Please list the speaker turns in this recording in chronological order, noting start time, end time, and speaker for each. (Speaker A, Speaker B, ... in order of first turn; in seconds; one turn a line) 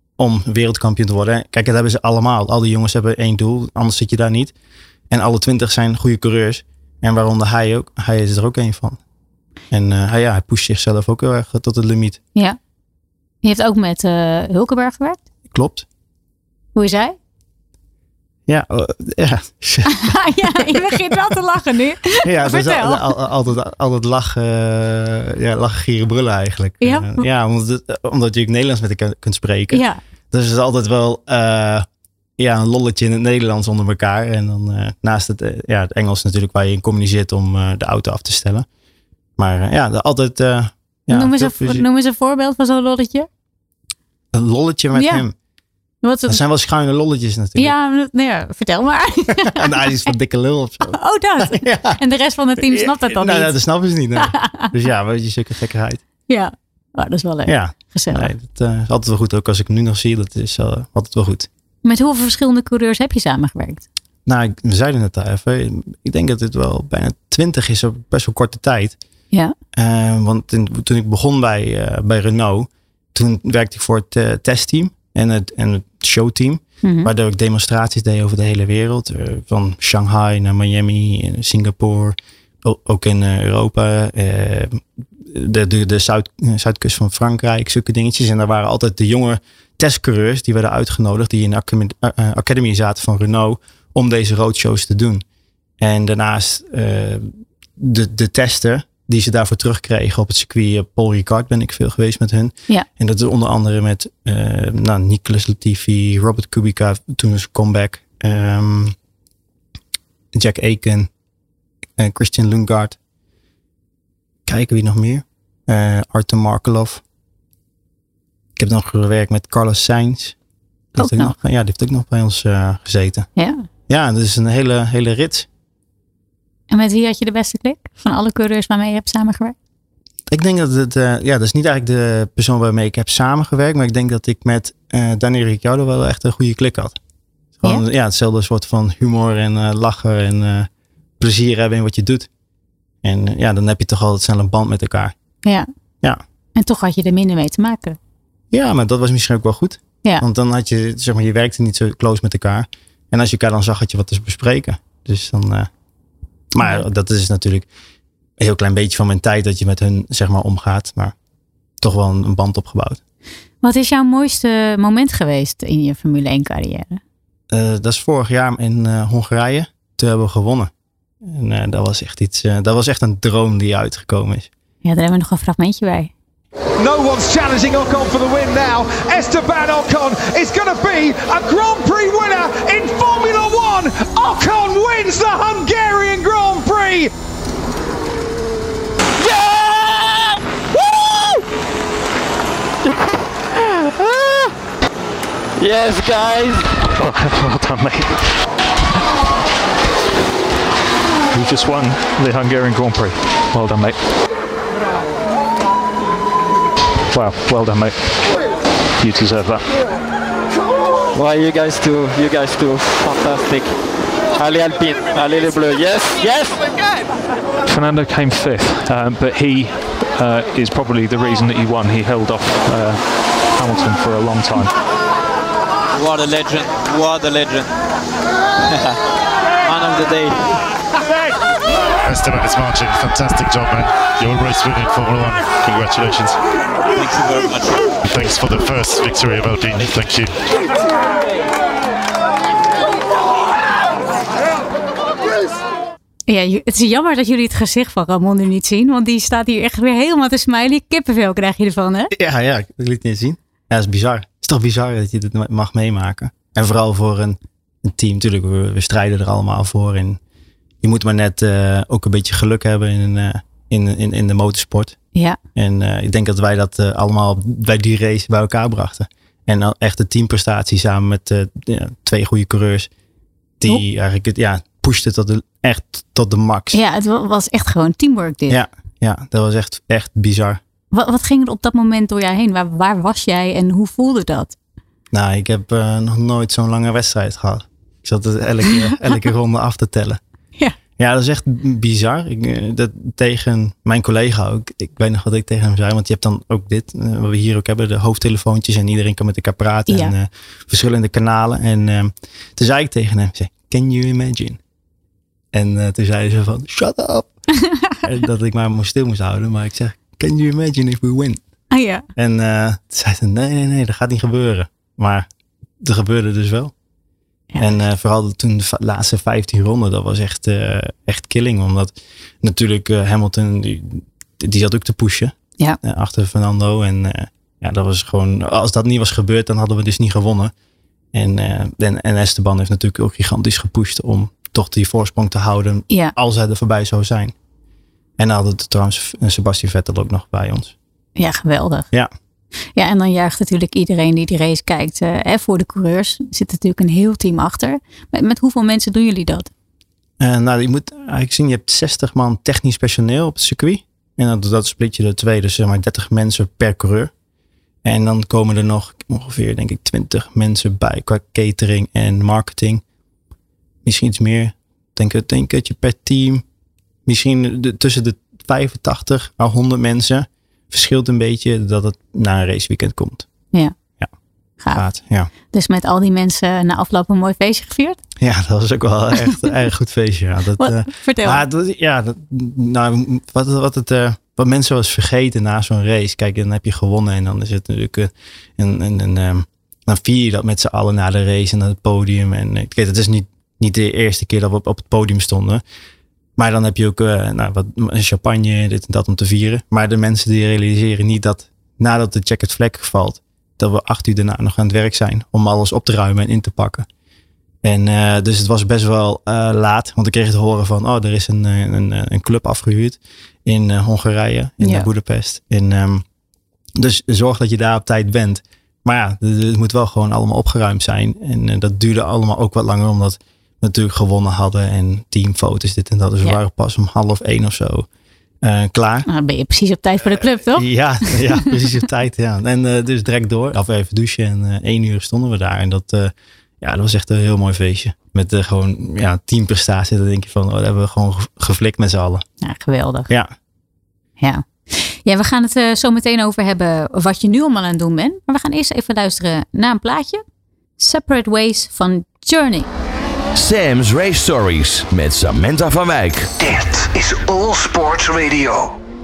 Speaker A: 0.2-4.5
Speaker A: 5.1-9.0
Speaker A: 9.7-12.2
Speaker B: 13.4-15.2
Speaker A: 15.5-15.9
Speaker B: 16.8-17.2
Speaker A: 18.5-21.3
Speaker B: 19.9-23.1
Speaker A: 22.2-31.9
Speaker B: 26.8-27.2
Speaker B: 29.7-30.0
Speaker A: 32.4-38.7
Speaker A: 39.4-41.9
Speaker B: 41.1-43.3
Speaker A: 44.3-45.4
Speaker B: 44.9-45.2
Speaker B: 46.0-46.4
Speaker A: 46.3-47.7
Speaker B: 47.6-49.9
Speaker A: 49.3-52.0
Speaker B: 50.9-53.6
Speaker A: 52.6-56.0
Speaker B: 54.2-54.7
Speaker B: 56.3-58.3
Speaker A: 57.5-61.5
Speaker B: 61.9-63.9
Speaker A: 64.3-69.0
Speaker A: 69.7-95.2
Speaker B: 76.8-77.1
Speaker A: 95.8-109.0
Speaker A: 110.3-111.1
Speaker A: 112.0-113.0
Speaker A: 114.5-117.0
Speaker A: 118.6-120.4
Speaker A: 121.0-123.3
Speaker B: 121.0-121.3
Speaker B: 123.4-123.6
Speaker A: 123.9-125.5
Speaker B: 126.7-129.6
Speaker A: 130.3-137.0
Speaker A: 137.6-142.3
Speaker A: 143.0-145.1
Speaker B: 146.6-148.0
Speaker A: 148.5-155.7
Speaker A: 156.5-157.7
Speaker A: 158.4-161.2
Speaker A: 161.8-163.0
Speaker B: 163.6-167.0
Speaker A: 167.5-170.7
Speaker A: 171.2-174.5
Speaker B: 174.8-176.1
Speaker C: 176.8-187.1
Speaker D: 189.2-191.4
Speaker D: 193.5-194.5
Speaker D: 195.6-196.8
Speaker E: 196.9-198.3
Speaker E: 201.3-204.0
Speaker E: 207.1-208.3
Speaker E: 209.0-209.7
Speaker D: 211.1-213.8
Speaker D: 214.3-216.7
Speaker E: 217.7-224.7
Speaker D: 225.9-227.7
Speaker D: 228.7-229.0
Speaker D: 229.6-230.6
Speaker F: 232.1-236.4
Speaker D: 236.9-237.9
Speaker F: 238.0-240.4
Speaker B: 246.3-252.1
Speaker A: 252.1-260.2
Speaker A: 260.8-265.0
Speaker A: 265.6-272.9
Speaker A: 273.6-276.8
Speaker B: 276.7-278.6
Speaker A: 278.5-280.6
Speaker B: 280.9-284.6
Speaker A: 285.1-290.2
Speaker A: 291.0-304.6
Speaker B: 299.9-300.1
Speaker A: 305.5-307.3
Speaker A: 308.0-311.4
Speaker B: 311.7-312.1
Speaker A: 312.2-315.3
Speaker A: 315.8-316.7
Speaker A: 317.6-330.5
Speaker A: 331.1-337.3
Speaker A: 338.2-340.8
Speaker B: 341.2-341.9
Speaker B: 342.8-349.5
Speaker A: 350.2-357.1
Speaker A: 357.8-362.8
Speaker A: 363.9-366.4
Speaker A: 367.1-373.3
Speaker A: 374.7-375.3
Speaker B: 375.5-378.0
Speaker A: 378.2-395.6
Speaker B: 380.6-381.4
Speaker A: 396.4-406.9
Speaker A: 407.6-416.1
Speaker B: 414.6-414.9
Speaker A: 416.8-427.9
Speaker A: 428.4-429.1
Speaker B: 429.1-431.5
Speaker A: 430.1-442.2
Speaker B: 442.4-443.1
Speaker B: 444.2-450.2
Speaker B: 450.8-452.7
Speaker G: 453.3-456.3
Speaker H: 456.4-458.8